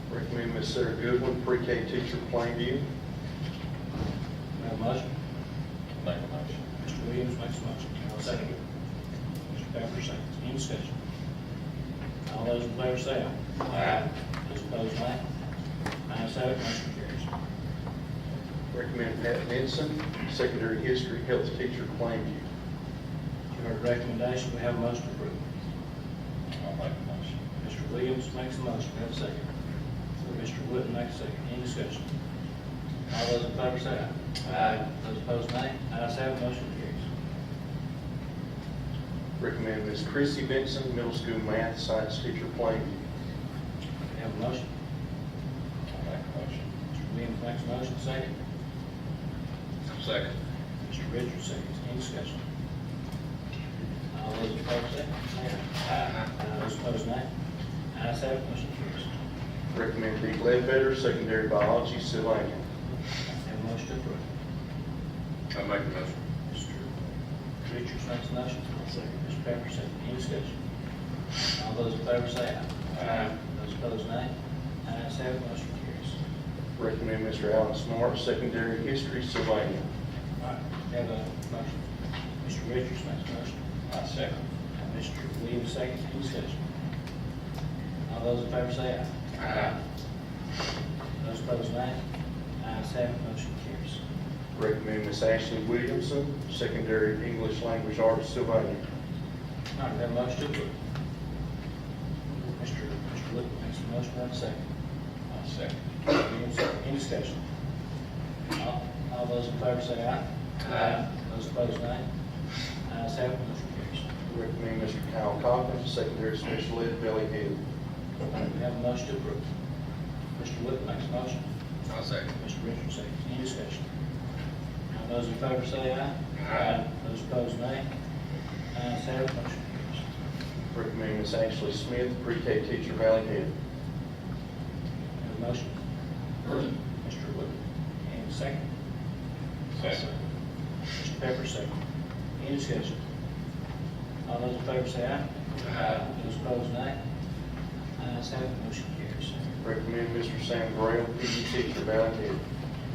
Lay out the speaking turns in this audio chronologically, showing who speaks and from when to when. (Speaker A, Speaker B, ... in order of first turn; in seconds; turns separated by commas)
Speaker A: 0.1-2.8, Speaker B: 4.6-5.1, Speaker C: 6.0-6.6, Speaker B: 6.8-8.6, Speaker B: 9.5-10.9, Speaker B: 12.3-15.2, Speaker D: 13.7-14.0, Speaker B: 16.1-17.3, Speaker A: 18.7-22.4, Speaker B: 23.5-25.4, Speaker C: 26.5-27.3, Speaker B: 27.6-29.5, Speaker B: 30.2-32.0, Speaker B: 33.1-37.0, Speaker A: 39.4-43.0, Speaker B: 44.1-44.7, Speaker C: 45.9-46.7, Speaker B: 46.9-48.3, Speaker D: 49.9-50.3, Speaker B: 50.9-52.4, Speaker B: 54.1-55.6, Speaker D: 55.9-56.2, Speaker B: 56.4-57.3, Speaker B: 57.9-59.1, Speaker A: 59.7-62.6, Speaker B: 63.5-64.2, Speaker D: 65.5-66.1, Speaker B: 66.5-66.9, Speaker B: 67.7-70.5, Speaker B: 71.6-74.3, Speaker B: 74.8-76.2, Speaker A: 76.8-79.8, Speaker B: 80.4-81.8, Speaker B: 82.4-83.6, Speaker C: 83.9-84.4, Speaker B: 84.8-86.6, Speaker B: 88.1-89.8, Speaker D: 89.4-89.7, Speaker B: 91.2-92.0, Speaker B: 92.6-94.0, Speaker A: 94.5-98.8, Speaker B: 99.8-100.7, Speaker B: 102.4-104.6, Speaker C: 105.3-105.7, Speaker B: 106.1-107.4, Speaker B: 108.6-112.0, Speaker D: 110.7-110.9, Speaker B: 112.9-114.1, Speaker A: 114.3-117.6, Speaker B: 118.4-119.4, Speaker B: 120.4-121.4, Speaker D: 121.9-122.3, Speaker B: 122.4-123.8, Speaker B: 124.9-127.9, Speaker D: 126.4-126.8, Speaker B: 128.7-130.0, Speaker A: 130.7-133.5, Speaker B: 135.2-135.8, Speaker B: 137.0-137.6, Speaker B: 138.1-138.6, Speaker B: 139.8-140.1, Speaker B: 141.0-141.7, Speaker B: 142.4-143.0, Speaker B: 144.3-147.0, Speaker D: 145.6-145.9, Speaker B: 148.0-149.4, Speaker A: 149.6-152.4